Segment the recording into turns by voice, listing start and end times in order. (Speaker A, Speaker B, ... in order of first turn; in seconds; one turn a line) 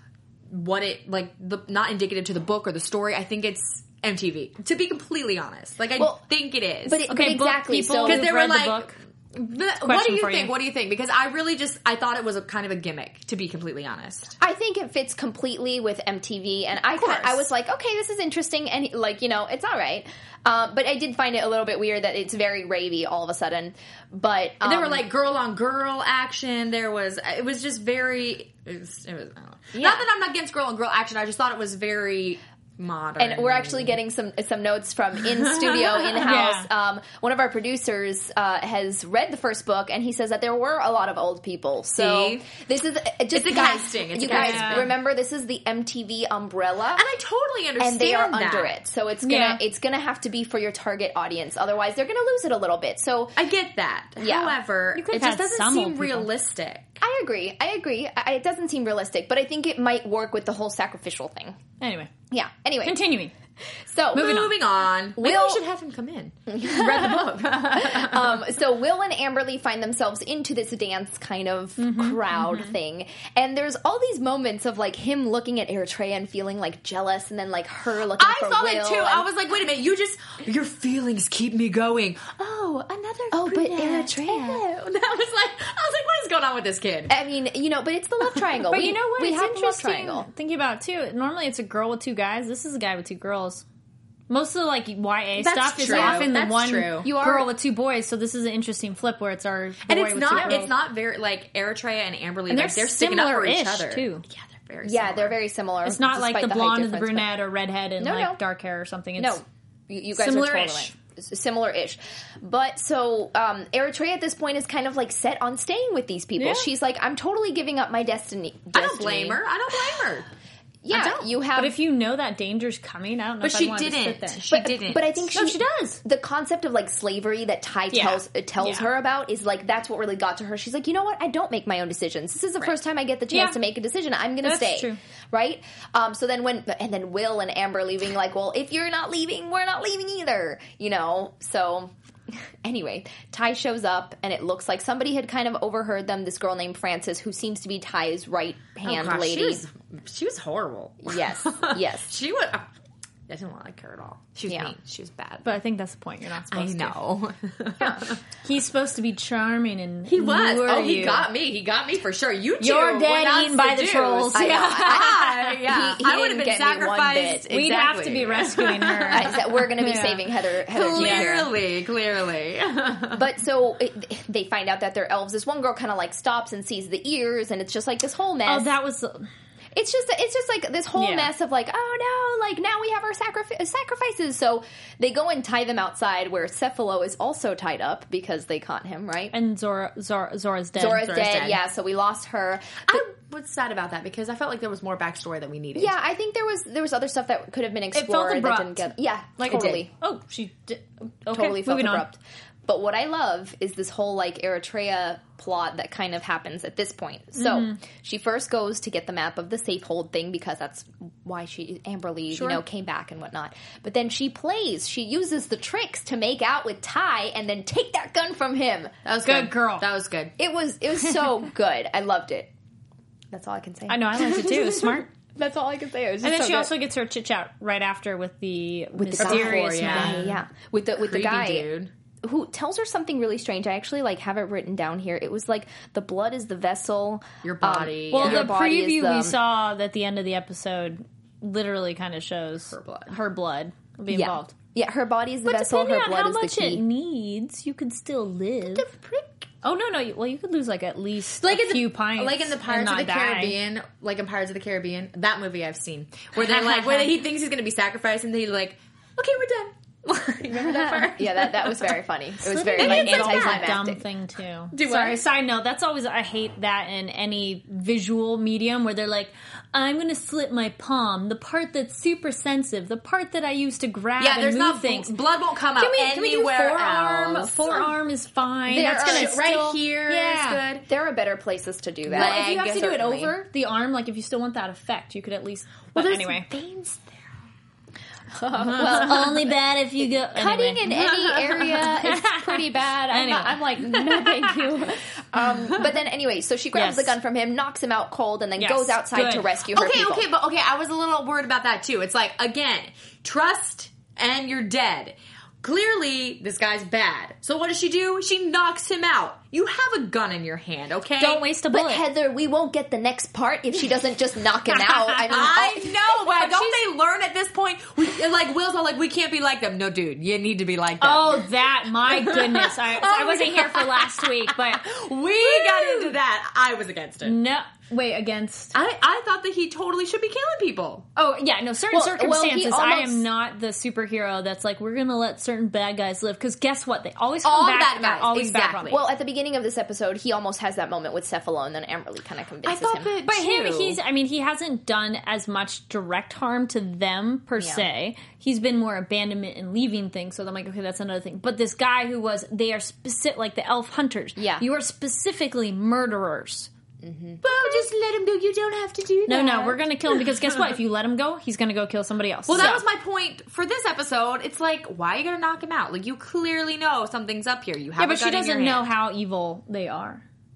Speaker A: 0.5-7.1
Speaker B: 6.8-8.2
Speaker C: 7.1-9.0
Speaker A: 8.0-14.3
Speaker C: 9.8-10.5
Speaker B: 14.4-25.1
Speaker C: 17.0-17.4
Speaker A: 17.0-17.4
Speaker A: 24.6-34.0
Speaker B: 29.8-30.0
Speaker B: 33.2-47.0
Speaker A: 35.5-35.9
Speaker C: 36.1-36.7
Speaker A: 41.9-42.5
Speaker A: 43.3-45.0
Speaker C: 44.2-44.9
Speaker A: 46.9-48.7
Speaker B: 47.8-53.4
Speaker C: 49.2-49.6
Speaker A: 53.4-57.0
Speaker B: 54.2-54.5
Speaker C: 54.9-56.3
Speaker B: 57.0-61.6
Speaker C: 61.8-62.1
Speaker B: 62.3-63.0
Speaker C: 62.8-63.3
Speaker B: 63.9-64.4
Speaker C: 64.1-64.5
Speaker A: 64.1-68.4
Speaker B: 65.2-65.6
Speaker B: 66.5-79.2
Speaker C: 71.8-72.7
Speaker A: 78.1-87.1
Speaker B: 83.3-84.6
Speaker B: 87.1-90.3
Speaker C: 88.7-93.6
Speaker C: 94.3-100.7
Speaker A: 95.4-97.1
Speaker B: 95.8-96.4
Speaker B: 97.0-97.5
Speaker A: 99.8-105.4
Speaker B: 100.3-100.6
Speaker C: 102.5-104.2
Speaker B: 104.8-107.3
Speaker C: 105.8-109.4
Speaker B: 108.0-108.4
Speaker B: 109.2-119.4
Speaker C: 110.1-110.9
Speaker C: 116.4-116.7
Speaker A: 118.7-120.3
Speaker B: 120.8-121.8
Speaker A: 120.9-121.3
Speaker C: 121.5-124.5
Speaker A: 123.4-125.3
Speaker B: 124.5-141.9
Speaker C: 125.3-126.0
Speaker C: 127.9-128.9
Speaker C: 133.3-133.6
Speaker C: 134.4-135.0
Speaker B: 142.6-149.6
Speaker A: 148.8-152.7
Speaker B: 151.0-152.1
Speaker A: 153.3-155.5
Speaker C: 155.4-156.9
Speaker A: 156.5-158.1
Speaker B: 157.8-158.0
Speaker C: 158.4-161.3
Speaker A: 160.1-169.6
Speaker C: 162.6-165.5
Speaker B: 164.3-167.4
Speaker C: 167.5-170.2
Speaker B: 169.1-171.5
Speaker A: 170.7-173.2
Speaker C: 170.9-171.4
Speaker B: 173.1-178.7
Speaker C: 178.4-179.3
Speaker B: 179.7-189.3
Speaker C: 180.9-181.3
Speaker C: 189.3-191.5
Speaker B: 190.8-193.0
Speaker A: 191.1-191.6
Speaker A: 192.8-195.9
Speaker B: 195.7-199.9
Speaker C: 197.9-202.1
Speaker A: 199.5-199.8
Speaker B: 201.3-219.0
Speaker C: 207.3-207.8
Speaker C: 212.3-212.6
Speaker A: 219.0-220.3
Speaker C: 219.2-219.9
Speaker B: 220.4-222.5
Speaker B: 223.3-226.7
Speaker C: 223.9-225.1
Speaker C: 226.2-230.3
Speaker B: 229.0-231.7
Speaker A: 229.2-230.4
Speaker A: 231.0-231.9
Speaker B: 232.2-239.3
Speaker A: 237.4-238.5
Speaker C: 238.1-244.5
Speaker A: 242.7-243.1
Speaker B: 244.1-246.8
Speaker C: 245.4-248.8
Speaker A: 248.7-249.4
Speaker C: 249.6-253.6
Speaker A: 251.4-261.9
Speaker C: 256.3-257.1
Speaker B: 260.9-264.0
Speaker C: 262.4-275.1
Speaker A: 262.8-263.8
Speaker A: 264.7-265.2
Speaker A: 274.2-277.8
Speaker C: 275.8-280.6
Speaker B: 278.7-279.5
Speaker A: 278.8-280.9
Speaker B: 280.9-283.1
Speaker A: 282.1-283.3
Speaker C: 282.1-286.5
Speaker A: 285.9-287.3
Speaker B: 288.4-289.5
Speaker C: 288.6-294.8
Speaker B: 290.2-300.3
Speaker A: 290.9-291.6
Speaker C: 296.7-297.1
Speaker C: 298.6-299.5
Speaker A: 299.7-311.4
Speaker C: 311.2-312.1
Speaker B: 311.7-315.9
Speaker C: 314.7-315.5
Speaker A: 315.2-321.5
Speaker C: 316.1-316.8
Speaker C: 321.0-326.1
Speaker A: 322.1-327.4
Speaker C: 327.2-328.7
Speaker A: 328.7-331.1
Speaker C: 331.1-339.0
Speaker B: 331.9-333.2
Speaker A: 337.4-339.0
Speaker B: 338.9-343.1
Speaker A: 342.6-344.0
Speaker C: 343.2-356.7
Speaker B: 354.4-354.6
Speaker B: 357.0-357.4
Speaker A: 357.4-359.8
Speaker C: 359.3-362.8
Speaker A: 362.5-368.9
Speaker C: 368.0-370.2